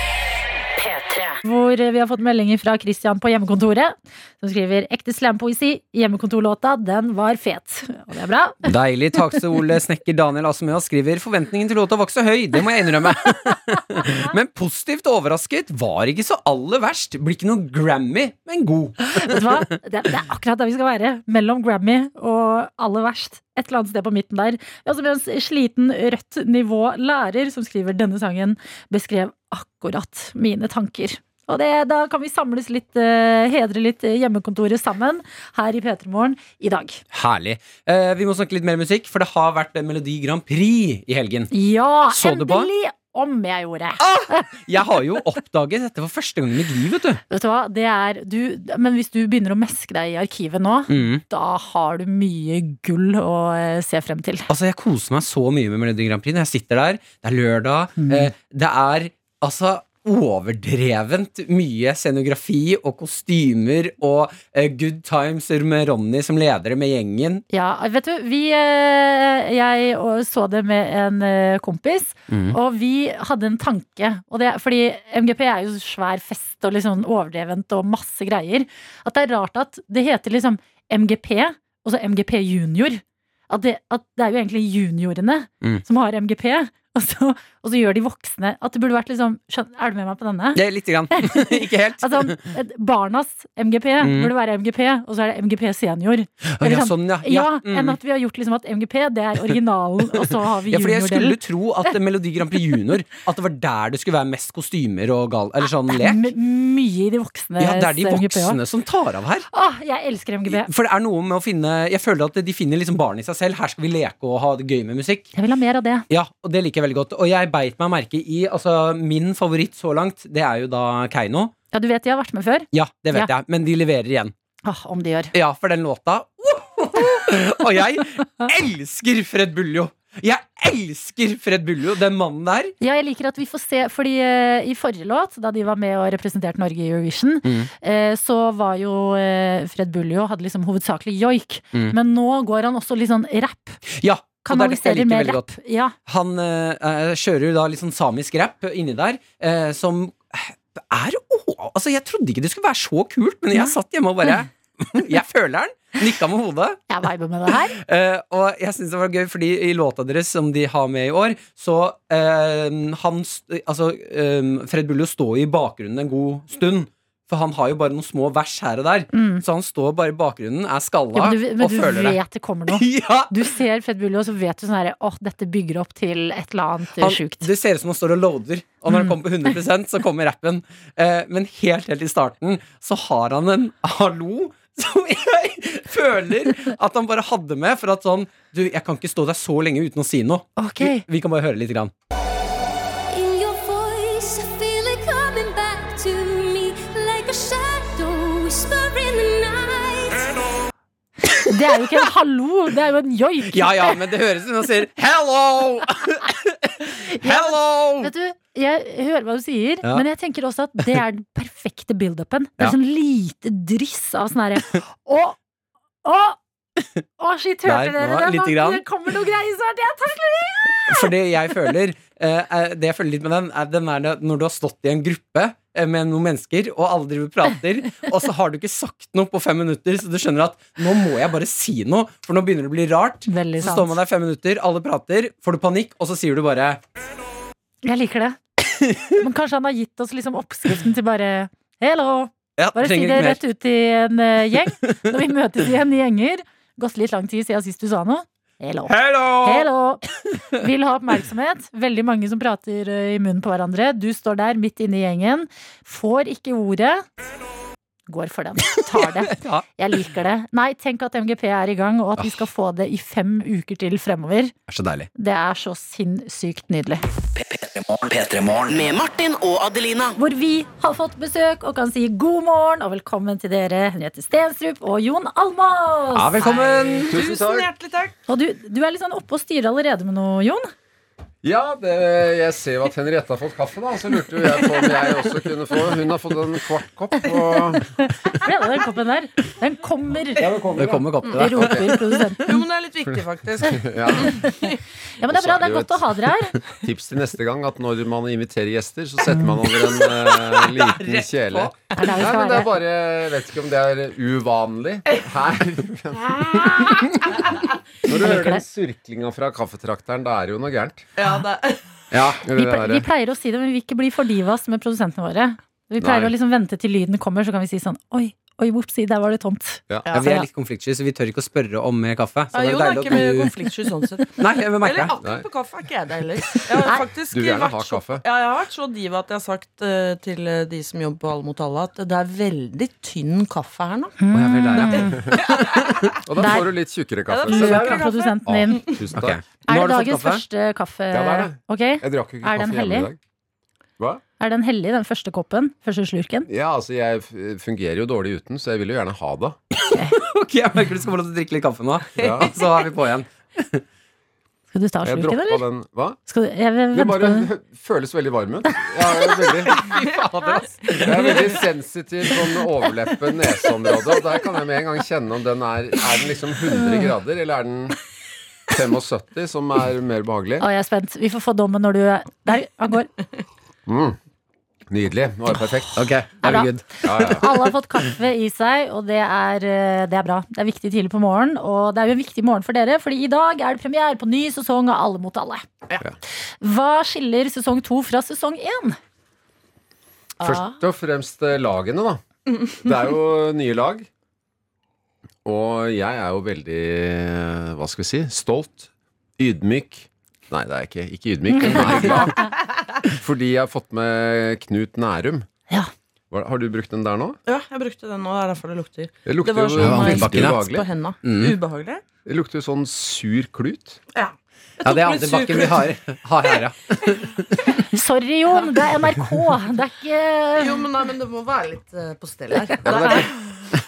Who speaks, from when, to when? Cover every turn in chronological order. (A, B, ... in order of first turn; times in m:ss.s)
0:01.4-0:08.7 A
0:08.6-0:19.6 B
0:13.9-0:14.3 A
0:19.0-0:37.0 A
0:37.1-0:41.5 B
0:41.5-0:44.5 A
0:42.1-0:42.7 B
0:44.0-0:47.2 B
0:47.3-0:54.5 A
0:50.9-0:51.2 B
0:54.5-1:07.4 B
0:58.0-0:58.3 A
1:07.5-1:30.6 A
1:12.3-1:12.6 B
1:30.6-1:32.6 B
1:31.1-1:41.4 A
1:34.0-1:34.3 B
1:36.4-1:38.0 B
1:40.2-1:46.3 B
1:45.9-1:48.6 A
1:47.6-1:49.5 B
1:49.5-1:50.7 A
1:50.5-1:55.3 B
1:55.4-1:56.1 A
1:56.1-2:01.5 B
2:01.7-2:03.3 A
2:02.7-2:04.3 B
2:04.6-2:05.3 A
2:05.3-2:12.8 B
2:12.8-2:23.8 A
2:17.4-2:17.7 B
2:23.9-2:25.5 B
2:24.4-2:26.0 A
2:26.1-2:36.8 B
2:36.9-2:37.8 A
2:37.7-2:53.4 B
2:49.1-2:49.4 A
2:51.1-2:57.5 A
2:57.0-3:11.9 B
3:10.6-3:11.0 A
3:13.1-3:20.3 C
3:21.4-3:24.0 A
3:23.5-3:28.1 B
3:27.1-3:35.4 A
3:36.0-3:36.4 A
3:37.2-3:41.1 A
3:37.6-3:38.8 B
3:40.9-3:56.8 B
3:53.3-3:54.0 A
3:57.8-3:58.4 A
3:58.7-3:59.1 B
3:59.2-4:17.0 A
4:02.6-4:03.4 B
4:08.9-4:09.7 B
4:18.1-4:24.5 A
4:19.0-4:19.6 B
4:24.7-4:25.1 B
4:25.2-4:27.0 A
4:27.4-4:30.2 D
4:30.2-4:36.9 A
4:36.1-4:37.2 B
4:37.1-4:37.7 E
4:37.1-4:38.1 F
4:38.3-4:40.7 A
4:41.4-4:47.9 E
4:48.3-4:50.5 A
4:50.4-4:51.9 E
4:50.7-4:52.5 B
4:51.3-4:52.5 A
4:52.5-4:54.8 F
4:53.1-4:54.5 E
4:55.2-4:56.6 A
4:55.3-4:56.0 E
4:56.8-5:07.1 E
5:00.1-5:01.6 B
5:01.6-5:02.0 F
5:02.0-5:02.7 A
5:08.1-5:11.1 E
5:08.2-5:08.6 A
5:11.2-5:11.8 F
5:12.1-5:12.4 B
5:12.4-5:13.0 E
5:12.5-5:20.5 A
5:16.0-5:16.3 E
5:20.1-5:23.6 B
5:22.5-5:34.2 F
5:24.4-5:25.2 B
5:25.2-5:25.5 E
5:27.3-5:28.2 E
5:34.2-5:35.3 A
5:34.3-5:36.1 B
5:35.4-5:36.2 F
5:36.2-5:39.4 E
5:36.4-5:36.7 A
5:37.3-5:39.0 F
5:37.4-5:39.0 A
5:39.1-5:40.4 B
5:39.7-5:43.1 A
5:41.1-5:43.2 E
5:44.4-5:46.5 A
5:46.5-5:49.6 E
5:49.8-5:53.8 B
5:52.2-5:52.5 E
5:52.2-5:52.5 F
5:54.7-5:55.7 A
5:55.0-5:56.2 E
5:56.3-5:57.5 A
5:56.9-5:59.9 E
5:59.7-6:01.5 B
6:00.9-6:08.0 E
6:08.7-6:10.6 E
6:10.6-6:13.1 A
6:13.9-6:14.2 E
6:14.9-6:16.1 E
6:16.0-6:17.5 B
6:16.4-6:25.7 A
6:17.0-6:17.5 E
6:26.6-6:29.0 A
6:30.4-6:30.8 F
6:30.4-6:32.2 E
6:32.8-6:34.1 E
6:35.4-6:42.5 E
6:41.5-6:42.2 A
6:41.7-6:42.2 B
6:43.1-6:45.5 E
6:46.3-6:47.4 E
6:47.4-6:52.0 F
6:49.2-6:50.9 E
6:49.8-6:50.7 B
6:51.2-6:51.6 B
6:52.2-6:54.0 E
6:54.1-6:55.9 F
6:54.8-6:57.8 B
6:57.9-7:00.8 A
7:00.6-7:03.4 F
7:02.7-7:03.1 A
7:02.8-7:03.3 E